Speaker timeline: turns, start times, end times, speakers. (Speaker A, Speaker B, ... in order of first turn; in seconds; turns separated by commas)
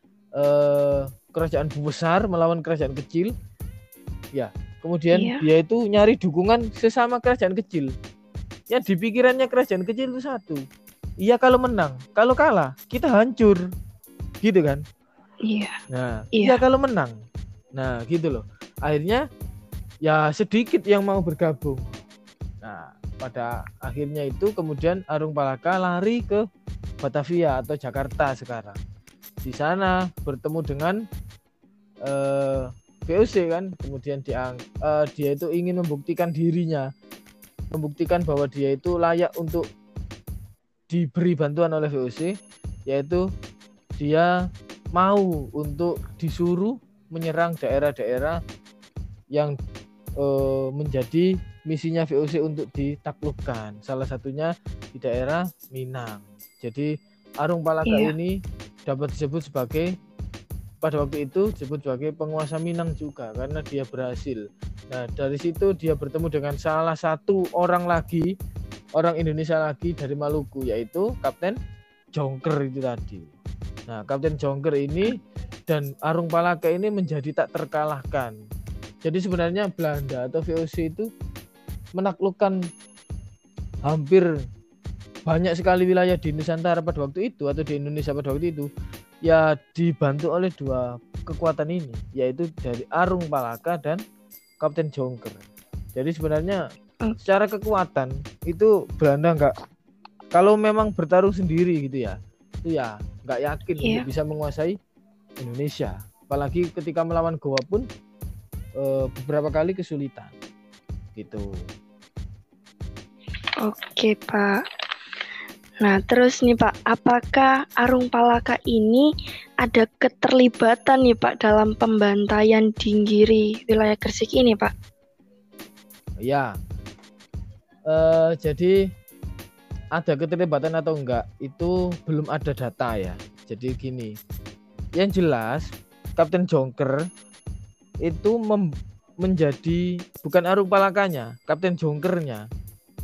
Speaker A: 0.4-3.3, Speaker A: 4.3-7.9, Speaker B: 5.1-5.4, Speaker A: 8.7-10.6, Speaker A: 11.2-13.6, Speaker A: 14.4-14.8, Speaker B: 15.5-15.8, Speaker A: 15.9-17.1, Speaker A: 17.8-19.2, Speaker A: 20.1-21.8, Speaker A: 22.6-26.4, Speaker A: 27.0-28.8, Speaker A: 29.4-31.0, Speaker A: 32.1-36.9, Speaker A: 37.7-39.6, Speaker A: 40.9-42.3, Speaker A: 42.9-43.2, Speaker A: 44.0-44.3, Speaker A: 45.0-48.4, Speaker A: 50.2-56.9, Speaker A: 57.4-59.9, Speaker B: 57.9-58.1, Speaker A: 60.8-68.3, Speaker A: 69.0-71.6, Speaker A: 72.2-73.3, Speaker A: 73.9-75.2, Speaker A: 75.7-78.3, Speaker A: 79.0-81.1, Speaker A: 82.0-82.6, Speaker A: 83.8-84.3, Speaker A: 85.3-88.7, Speaker A: 89.3-94.0, Speaker A: 94.6-95.4, Speaker A: 96.0-96.6, Speaker A: 97.2-99.5, Speaker A: 100.3-104.7, Speaker A: 105.4-107.8, Speaker A: 108.8-110.3, Speaker A: 111.2-111.5, Speaker B: 113.7-114.6, Speaker B: 115.8-119.1, Speaker B: 119.6-124.7, Speaker A: 127.9-128.7, Speaker A: 130.0-134.1, Speaker A: 135.0-137.1, Speaker A: 138.0-138.7, Speaker A: 139.2-142.4